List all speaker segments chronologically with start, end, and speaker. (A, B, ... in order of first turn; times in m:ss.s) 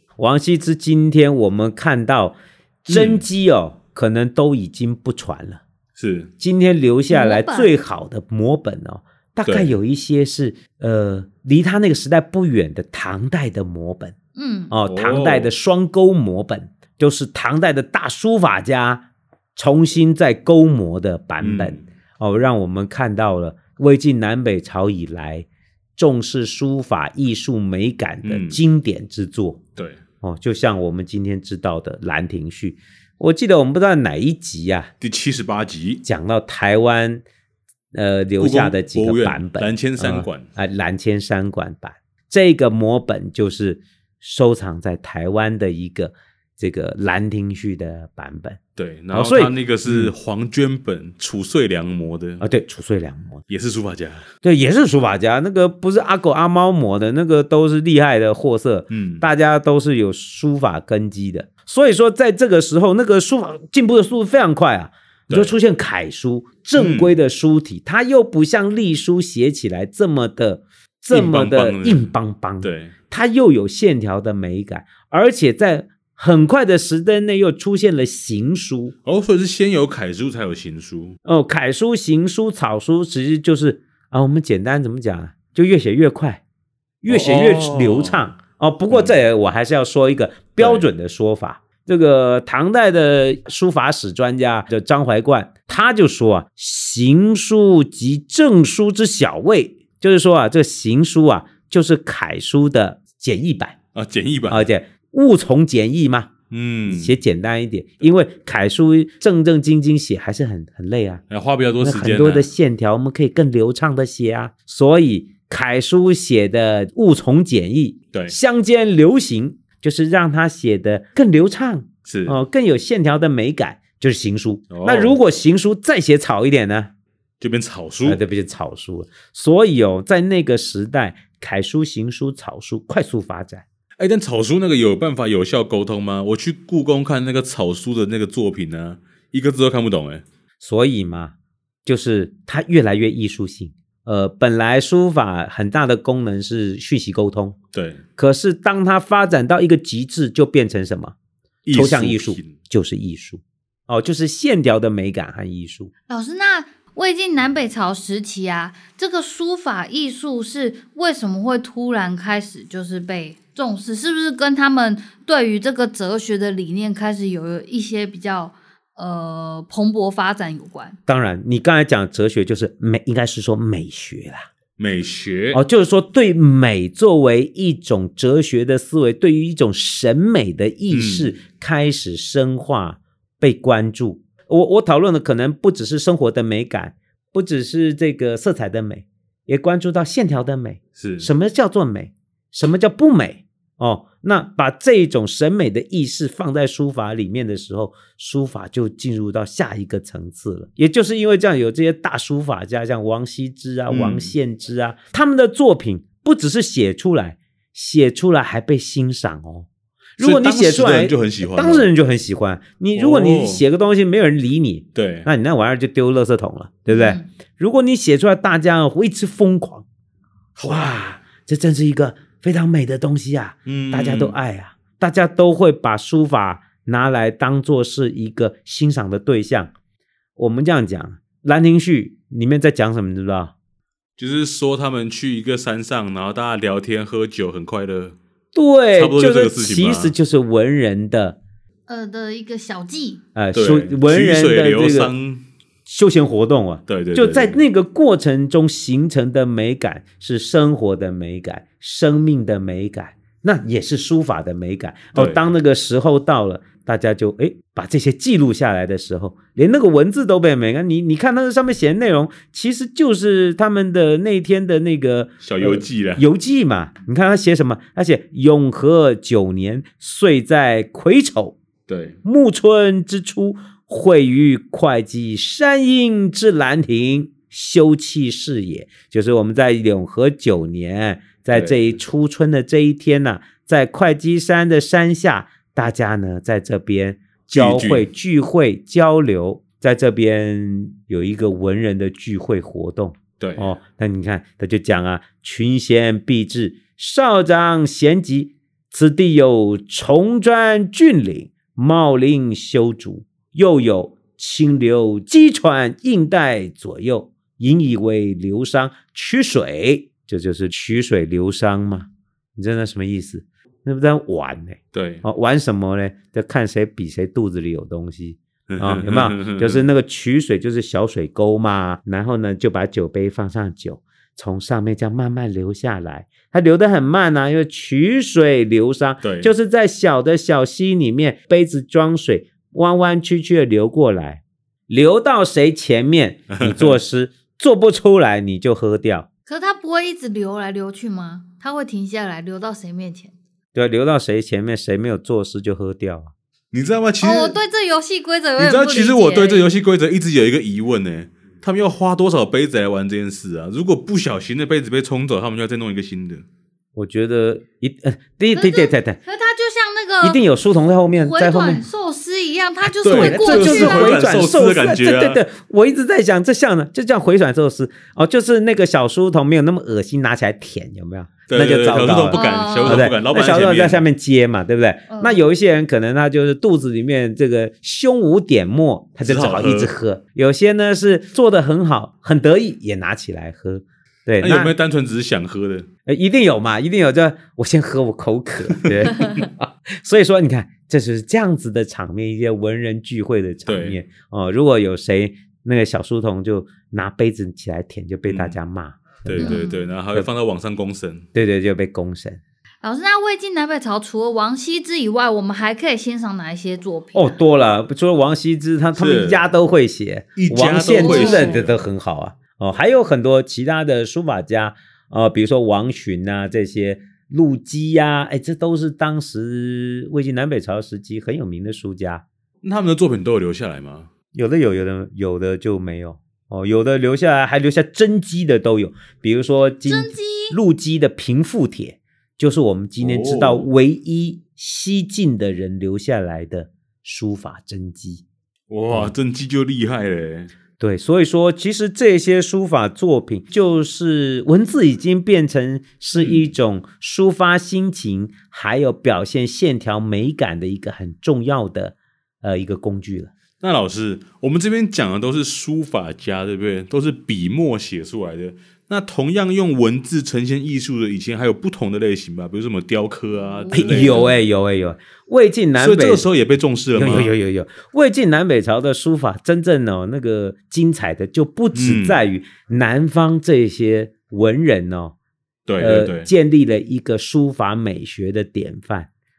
0:00.2-0:05.6 A
0:02.9-0:03.2 B
0:06.0-0:06.3 B
0:06.4-0:14.1 A
0:07.1-0:07.7 C
0:09.4-0:09.7 B
0:14.4-0:14.7 C
0:14.7-0:29.6 A
0:14.9-0:15.5 B
0:21.4-0:21.8 B
0:28.2-0:28.6 B
0:30.2-0:34.9 A
0:35.0-0:36.0 B
0:36.0-0:37.2 A
0:37.9-0:48.6 A
0:38.4-0:40.5 B
0:48.8-0:52.4 B
0:49.1-0:50.1 A
0:52.4-0:53.4 A
0:53.5-0:54.3 B
0:54.4-1:18.9 A
0:58.9-0:59.2 B
1:05.3-1:05.6 B
1:06.8-1:07.1 B
1:11.1-1:12.1 B
1:12.6-1:12.9 B
1:19.0-1:21.2 B
1:21.2-1:26.4 A
1:27.0-1:43.8 A
1:27.1-1:28.2 B
1:28.9-1:29.1 B
1:30.6-1:30.8 B
1:43.9-1:44.6 B
1:44.5-1:46.3 A
1:46.5-1:47.1 B
1:46.9-1:51.2 A
1:51.3-1:52.5 B
1:51.8-2:06.9 A
2:02.0-2:02.4 B
2:04.7-2:05.2 B
2:07.4-2:08.2 B
2:08.0-2:13.6 A
2:14.0-2:20.2 B
2:20.6-2:21.3 A
2:21.8-2:27.6 A
2:27.7-2:28.0 B
2:28.2-2:31.1 A
2:31.6-2:32.5 B
2:31.7-2:35.9 A
2:36.1-2:51.0 C
2:51.1-2:54.5 A
2:54.8-2:55.6 B
2:55.5-3:29.7 A
3:00.9-3:01.3 B
3:11.0-3:11.3 B
3:23.9-3:24.3 B
3:30.2-3:39.8 A
3:30.2-3:31.9 B
3:32.9-3:33.6 B
3:34.9-3:35.3 B
3:36.9-3:37.3 C
3:40.6-3:49.7 A
3:43.6-3:44.4 B
3:50.4-3:53.5 A
3:54.2-3:58.2 B
3:58.5-4:01.4 A
3:58.9-4:00.1 B
4:01.9-4:03.2 C
4:03.3-4:05.1 A
4:03.5-4:05.4 B
4:05.8-4:31.6 A
4:06.9-4:07.6 B
4:15.1-4:15.4 B
4:25.4-4:26.2 B
4:31.9-4:32.2 B
4:32.2-5:39.3 A
4:41.5-4:41.8 B
4:47.5-4:48.0 B
4:53.4-4:53.7 B
5:14.9-5:15.2 B
5:18.7-5:19.8 B
5:29.2-5:29.5 B
5:36.5-5:36.9 B
5:39.5-5:43.3 C
5:43.7-5:46.3 A
5:46.7-5:47.6 B
5:47.2-5:49.6 C
5:48.6-5:56.4 B
5:56.9-5:59.2 A
5:58.5-6:00.4 C
6:00.2-6:01.8 A
6:01.1-6:04.2 C
6:03.0-6:05.4 B
6:03.1-6:24.7 A
6:11.5-6:14.0 B
6:12.3-6:13.1 C
6:15.1-6:15.4 C
6:19.2-6:19.9 B
6:24.4-6:25.9 B
6:26.0-6:39.6 A
6:28.7-6:29.0 B
6:33.6-6:34.0 B
6:38.3-6:38.6 B
6:39.2-6:41.3 B
6:39.4-6:39.9 C
6:41.3-6:42.4 A
6:42.8-6:47.4 C
6:47.1-7:02.2 A
6:49.0-6:49.5 B
6:50.4-6:51.8 B
6:50.9-6:51.5 C
7:02.6-7:04.1 B
7:04.3-7:18.2 A
7:09.8-7:10.6 C
7:13.0-7:13.7 B
7:18.7-7:20.5 B
7:20.8-7:33.3 A
7:26.2-7:26.4 B
7:33.6-7:44.3 B
7:43.6-7:44.3 C
7:43.7-7:46.2 A
7:45.8-7:47.3 B
7:46.9-7:55.1 A
7:51.7-7:52.2 B
7:55.7-7:56.3 B
7:55.8-7:59.1 A